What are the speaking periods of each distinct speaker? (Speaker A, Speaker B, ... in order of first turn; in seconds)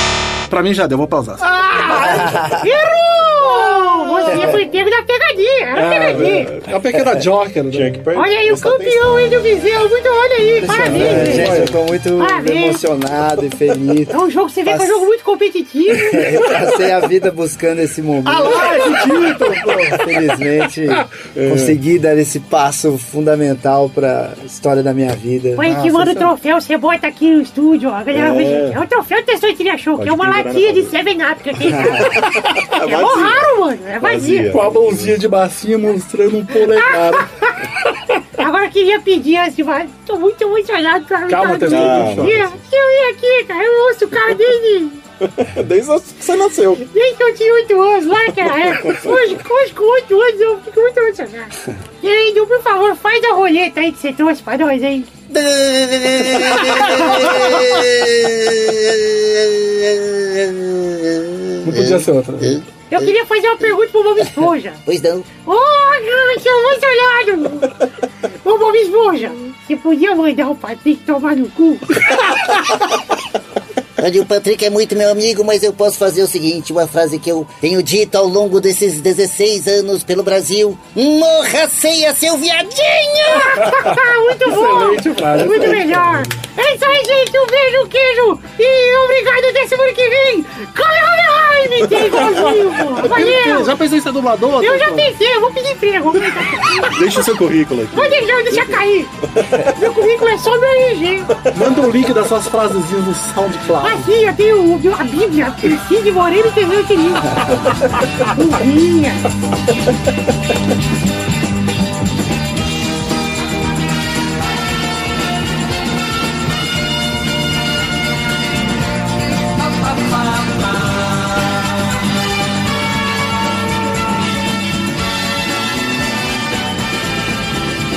Speaker A: 0.5-1.4, 5.7-8.1, 10.9-11.8, 25.6-26.3, 34.5-37.3, 41.2-42.5, 61.6-62.5, 83.4-86.4, 92.2-95.1, 101.5-104.1
Speaker B: 1.4-6.5, 8.1-11.6, 12.1-12.8, 14.1-16.4, 25.6-34.5, 36.6-37.2, 38.4-45.0, 46.9-55.1, 62.9-64.8, 65.3-67.8, 68.4-72.0, 83.2-93.8, 94.5-97.2, 97.9-101.4, 103.8-109.3
Speaker C: 1.5-1.9, 18.2-20.0
Speaker D: 2.1-2.6, 10.6-15.1, 16.1-19.0, 20.0-25.7, 31.7-32.0
Speaker E: 6.1-6.5, 7.7-9.1, 10.9-11.6, 21.3-21.8, 28.1-28.8, 30.0-31.0, 31.7-35.2, 41.6-42.6, 45.2-46.9, 48.9-49.2, 96.8-99.8, 101.4-101.8
Speaker F: 55.3-63.7, 64.9-65.3, 74.0-83.4